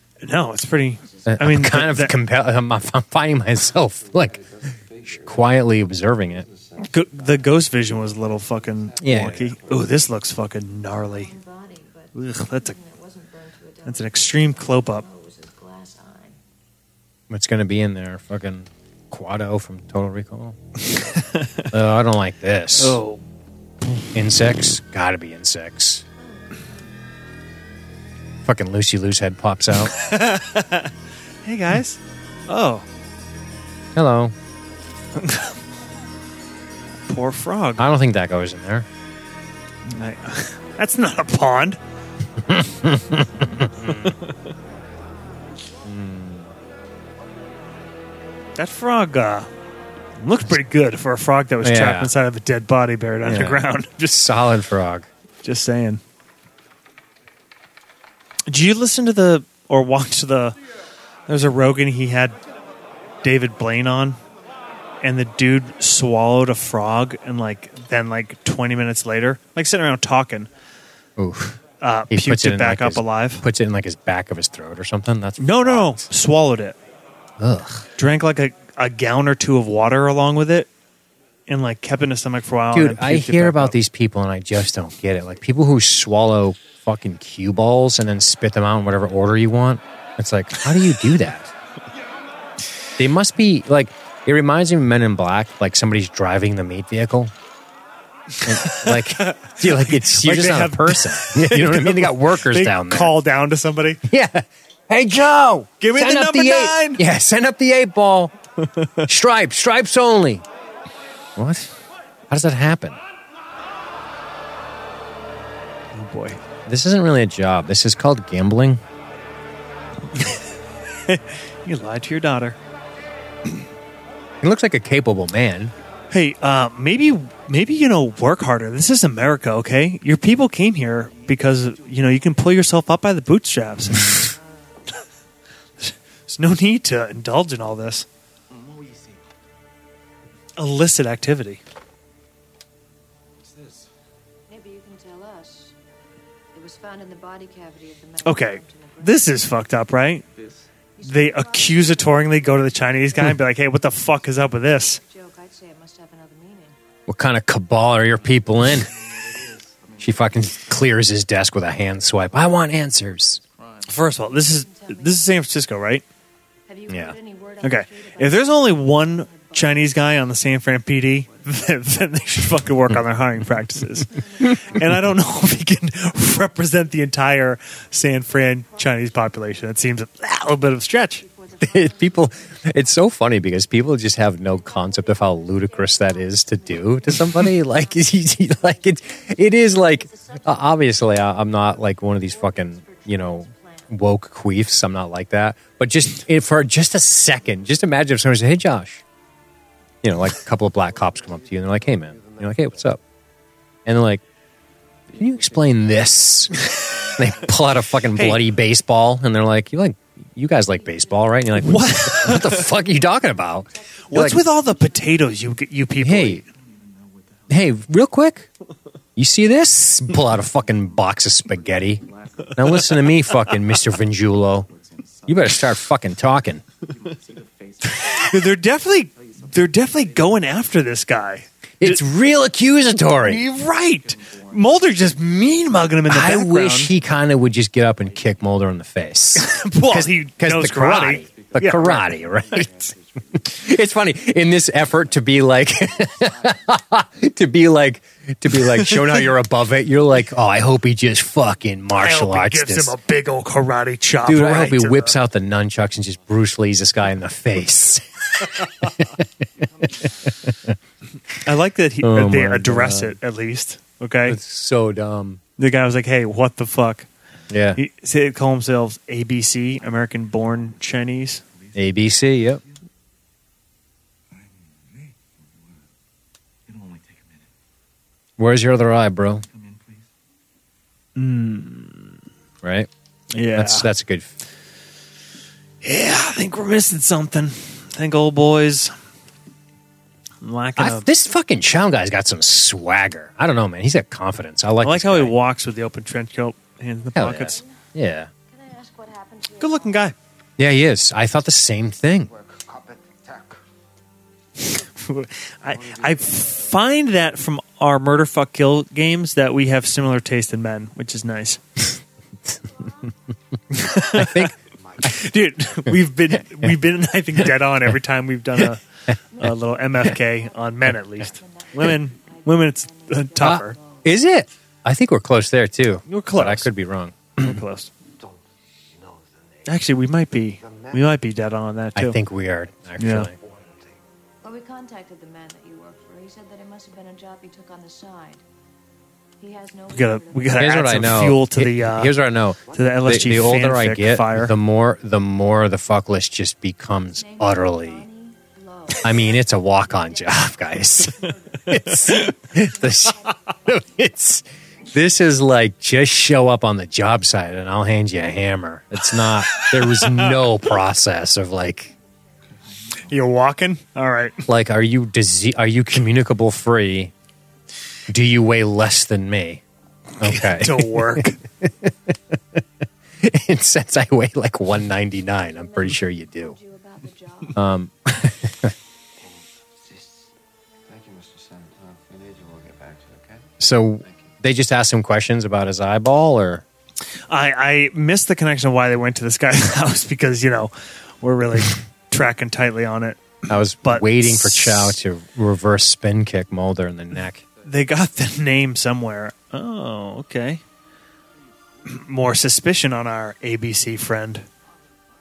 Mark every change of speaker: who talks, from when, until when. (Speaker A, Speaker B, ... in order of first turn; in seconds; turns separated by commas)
Speaker A: 0.2-2.1, Speaker B: 1.1-1.4, Speaker C: 1.2-4.4, Speaker D: 3.9-10.1, Speaker C: 5.1-6.5, Speaker A: 6.8-11.3, Speaker C: 9.0-9.5, Speaker B: 10.9-16.4, Speaker A: 12.1-12.8, Speaker A: 13.8-15.0, Speaker C: 17.3-20.6, Speaker A: 20.9-21.7, Speaker C: 21.7-23.0, Speaker A: 22.7-23.2, Speaker C: 24.0-26.0, Speaker B: 26.2-26.6, Speaker C: 28.4-29.9, Speaker A: 29.9-30.9, Speaker A: 31.4-32.9, Speaker C: 33.9-34.3, Speaker A: 35.1-35.5, Speaker A: 37.1-37.9, Speaker C: 37.8-38.9, Speaker A: 39.9-41.8, Speaker C: 42.4-44.1, Speaker A: 43.8-44.3, Speaker C: 45.8-46.5, Speaker A: 48.5-49.5, Speaker A: 50.2-54.2, Speaker C: 51.6-52.1, Speaker C: 53.2-55.1, Speaker A: 55.4-56.0, Speaker A: 58.5-60.6, Speaker A: 61.3-62.4, Speaker A: 63.2-64.2, Speaker A: 65.0-70.5, Speaker C: 71.2-76.1, Speaker A: 71.8-73.5, Speaker A: 75.4-76.8, Speaker C: 77.4-77.9, Speaker A: 78.0-80.7, Speaker A: 81.5-83.8, Speaker C: 82.7-91.5, Speaker C: 93.0-97.3, Speaker A: 98.3-104.0, Speaker C: 98.4-103.2, Speaker C: 104.0-108.3, Speaker A: 105.8-107.0, Speaker A: 108.6-109.1, Speaker C: 109.0-110.4, Speaker C: 111.3-111.8, Speaker C: 112.3-113.0, Speaker A: 115.9-116.4, Speaker C: 116.7-118.8, Speaker A: 120.1-120.4, Speaker A: 121.0-122.6, Speaker C: 124.4-125.7, Speaker A: 126.1-134.3, Speaker A: 135.8-138.1, Speaker E: 138.5-139.2, Speaker A: 140.6-141.6, Speaker E: 143.4-143.9, Speaker B: 144.5-145.7, Speaker B: 146.5-149.4, Speaker A: 148.2-150.2, Speaker E: 150.3-150.7, Speaker B: 150.9-153.3, Speaker A: 151.0-155.0, Speaker B: 155.0-156.8, Speaker C: 157.1-158.9, Speaker E: 158.8-160.8, Speaker C: 160.0-163.4, Speaker E: 163.4-164.0, Speaker A: 163.9-166.0, Speaker B: 164.4-165.3, Speaker B: 166.7-170.2, Speaker C: 166.9-167.2, Speaker A: 167.6-181.2, Speaker B: 174.1-175.6, Speaker B: 178.1-179.7, Speaker B: 181.2-183.1, Speaker C: 181.6-199.0, Speaker B: 184.2-194.1, Speaker C: 200.0-203.0, Speaker D: 200.8-203.0, Speaker C: 203.8-204.2, Speaker D: 205.1-205.7, Speaker C: 205.1-214.4, Speaker E: 206.5-207.5, Speaker A: 208.1-208.5, Speaker B: 210.7-211.8, Speaker A: 211.5-212.7, Speaker B: 212.3-215.7, Speaker A: 214.1-216.5, Speaker C: 216.0-216.4, Speaker E: 216.5-217.7, Speaker C: 217.5-218.5, Speaker C: 219.2-224.7, Speaker E: 220.3-225.8, Speaker C: 225.2-226.6, Speaker E: 226.8-230.7, Speaker A: 228.1-232.0, Speaker C: 231.8-233.4, Speaker A: 233.2-236.9, Speaker E: 233.5-235.3, Speaker C: 236.1-253.0, Speaker E: 238.0-238.5, Speaker A: 239.3-242.6, Speaker E: 241.1-243.8, Speaker E: 244.5-246.7, Speaker A: 248.5-249.3, Speaker A: 251.9-255.2, Speaker C: 254.2-259.2, Speaker C: 259.8-260.7, Speaker A: 261.4-264.4, Speaker C: 262.0-263.2, Speaker C: 264.2-265.4, Speaker A: 265.6-267.1, Speaker C: 267.5-267.8, Speaker A: 267.7-271.4, Speaker E: 270.2-270.9, Speaker E: 271.5-272.7, Speaker C: 271.7-272.6, Speaker E: 274.3-275.8, Speaker E: 276.6-277.5, Speaker C: 278.4-279.4, Speaker E: 279.4-280.1, Speaker A: 281.1-282.1, Speaker C: 282.6-282.9, Speaker A: 283.3-283.9, Speaker C: 283.5-284.4, Speaker A: 285.8-288.9, Speaker A: 290.4-291.1, Speaker C: 290.8-295.4, Speaker A: 294.8-297.6, Speaker C: 297.1-298.3, Speaker B: 297.2-297.7, Speaker B: 298.5-300.1, Speaker A: 299.6-300.1, Speaker C: 300.6-302.3, Speaker D: 302.3-303.6, Speaker A: 304.6-311.6, Speaker D: 305.6-306.7, Speaker A: 313.7-318.8, Speaker C: 314.1-314.5, Speaker D: 314.7-315.2, Speaker C: 318.6-319.1, Speaker B: 319.3-324.2, Speaker A: 319.4-323.8, Speaker C: 323.4-327.6, Speaker A: 326.1-326.7, Speaker A: 327.4-327.9, Speaker D: 328.1-329.7, Speaker A: 329.6-332.2, Speaker D: 330.6-331.0, Speaker C: 331.9-333.3, Speaker A: 333.0-333.3, Speaker D: 333.3-334.0, Speaker B: 334.4-338.4, Speaker B: 339.4-341.3, Speaker A: 339.9-342.2, Speaker C: 340.6-348.1, Speaker D: 342.7-342.9, Speaker A: 342.7-344.6, Speaker B: 347.1-353.8, Speaker C: 349.0-361.9, Speaker A: 351.9-352.3, Speaker A: 359.2-360.5, Speaker E: 362.4-363.1, Speaker A: 363.0-364.4, Speaker C: 364.4-367.1, Speaker C: 368.1-369.6, Speaker A: 370.2-371.4, Speaker C: 370.2-372.6, Speaker C: 373.2-376.6, Speaker B: 375.4-377.6, Speaker C: 377.5-378.7, Speaker D: 379.2-380.2, Speaker D: 380.9-384.3, Speaker C: 383.6-386.6, Speaker A: 387.3-395.0, Speaker C: 393.5-397.4, Speaker A: 397.6-400.6, Speaker A: 401.9-404.4